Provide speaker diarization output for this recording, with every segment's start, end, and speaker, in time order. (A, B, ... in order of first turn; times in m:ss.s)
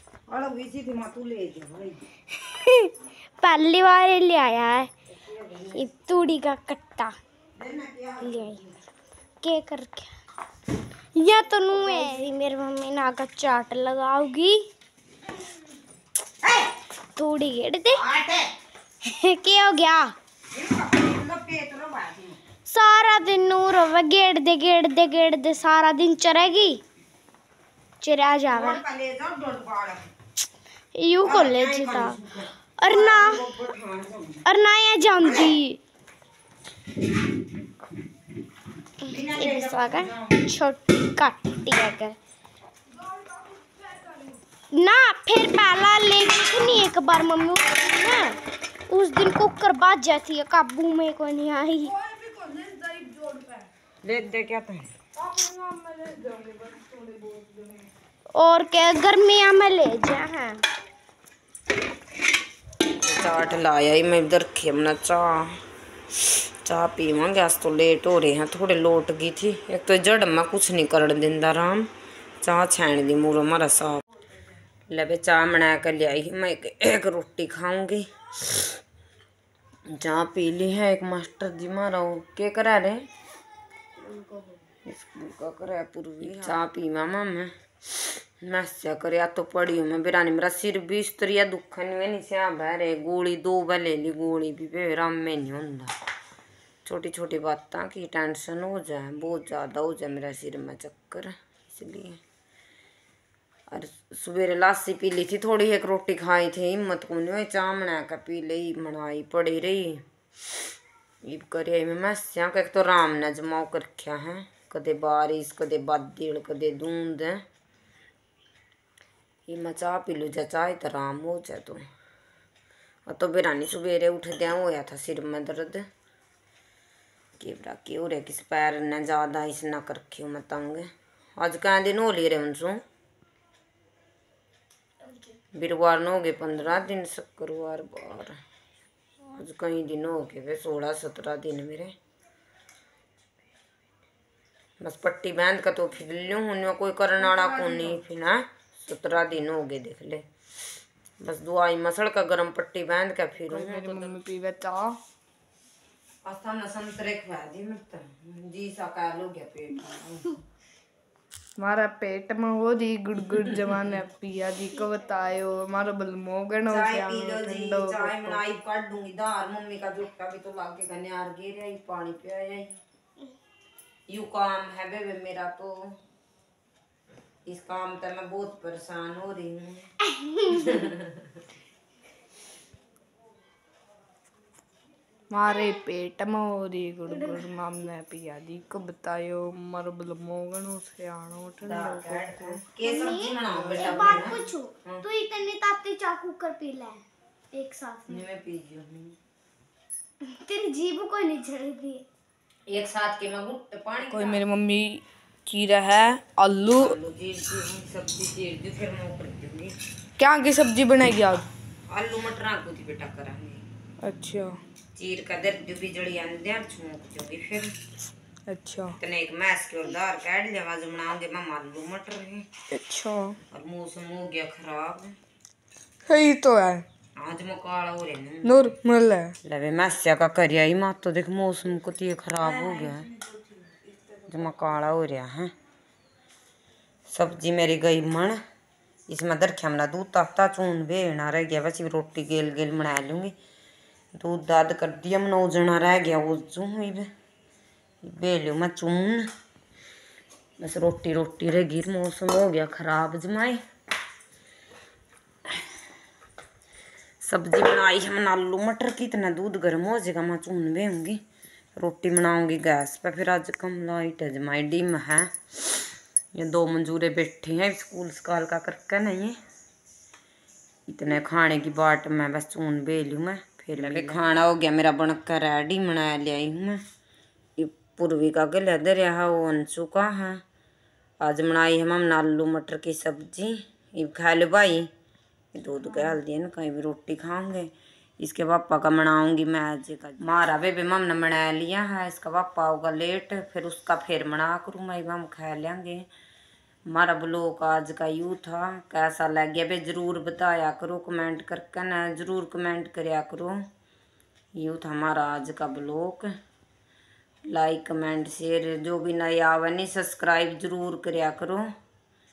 0:00.3-0:02.0 A
0:02.3-0:04.9 B
0:05.1-0:05.9 A
0:05.7-0:07.1 B
0:07.6-0:08.8 A
0:08.2-0:08.6 B
0:09.4-0:10.1 B
0:11.2-0:14.7 B
0:11.8-0:12.2 A
0:16.4-0:16.7 A
0:17.2-0:18.0 B
0:17.9-0:18.5 A
0:19.0-0:20.1 B
0:20.5-0:22.4 A
0:22.7-0:26.8 B
0:28.0-0:28.8 B
0:28.5-0:30.1 A
0:31.0-0:32.2 B
0:31.2-0:34.4 A
0:32.8-0:33.5 B
0:34.5-0:35.8 B
0:35.2-0:35.6 A
0:39.0-0:40.4 A
0:39.0-0:42.2 B
0:43.0-0:44.4 C
0:44.7-0:52.0 B
0:52.0-0:53.7 C
0:54.0-0:54.9 A
0:55.2-0:57.9 C
0:58.3-1:00.6 B
1:03.0-1:05.6 A
1:06.2-1:11.9 A
1:12.4-1:14.0 A
1:14.9-1:18.8 A
1:19.9-1:23.1 A
1:24.1-1:24.5 C
1:24.9-1:36.0 A
1:36.8-1:42.2 A
1:43.7-1:50.0 A
1:51.2-1:57.4 A
1:59.5-2:01.8 A
2:03.1-2:05.8 A
2:07.4-2:12.8 A
2:15.6-2:18.4 A
2:19.3-2:22.0 A
2:24.8-2:30.2 A
2:27.2-2:28.0 C
2:31.2-2:34.1 A
2:33.5-2:35.0 C
2:36.2-2:40.4 A
2:41.6-2:48.4 C
2:43.3-2:44.0 A
2:46.7-2:52.8 A
2:54.1-2:56.0 A
2:57.4-2:59.9 A
3:00.1-3:00.8 B
3:00.5-3:01.4 A
3:05.3-3:12.7 C
3:05.5-3:05.8 B
3:07.1-3:07.5 B
3:11.6-3:15.0 A
3:12.8-3:18.2 B
3:18.1-3:19.2 A
3:20.2-3:22.0 B
3:22.7-3:24.4 A
3:24.1-3:27.0 C
3:26.7-3:29.8 A
3:30.2-3:31.5 C
3:31.9-3:33.6 A
3:34.0-3:34.6 C
3:35.0-3:37.7 A
3:38.5-3:39.0 C
3:39.0-3:42.5 A
3:42.7-3:43.4 C
3:43.5-3:45.2 A
3:46.1-3:46.8 C
3:47.2-3:48.7 A
3:48.4-3:49.4 C
3:49.4-3:53.1 A
3:52.4-3:54.6 C
3:54.3-3:55.5 A
3:57.1-3:58.4 A
3:59.1-4:03.4 A
4:04.2-4:07.1 A
4:08.0-4:09.3 A
4:10.6-4:13.6 A
4:17.2-4:21.2 A
4:21.8-4:25.8 A
4:26.4-4:29.4 A
4:30.9-4:36.8 A
4:37.6-4:40.4 A
4:41.2-4:44.9 A
4:45.5-4:56.1 A
4:56.9-5:03.6 A
5:04.6-5:06.3 A
5:07.5-5:11.7 A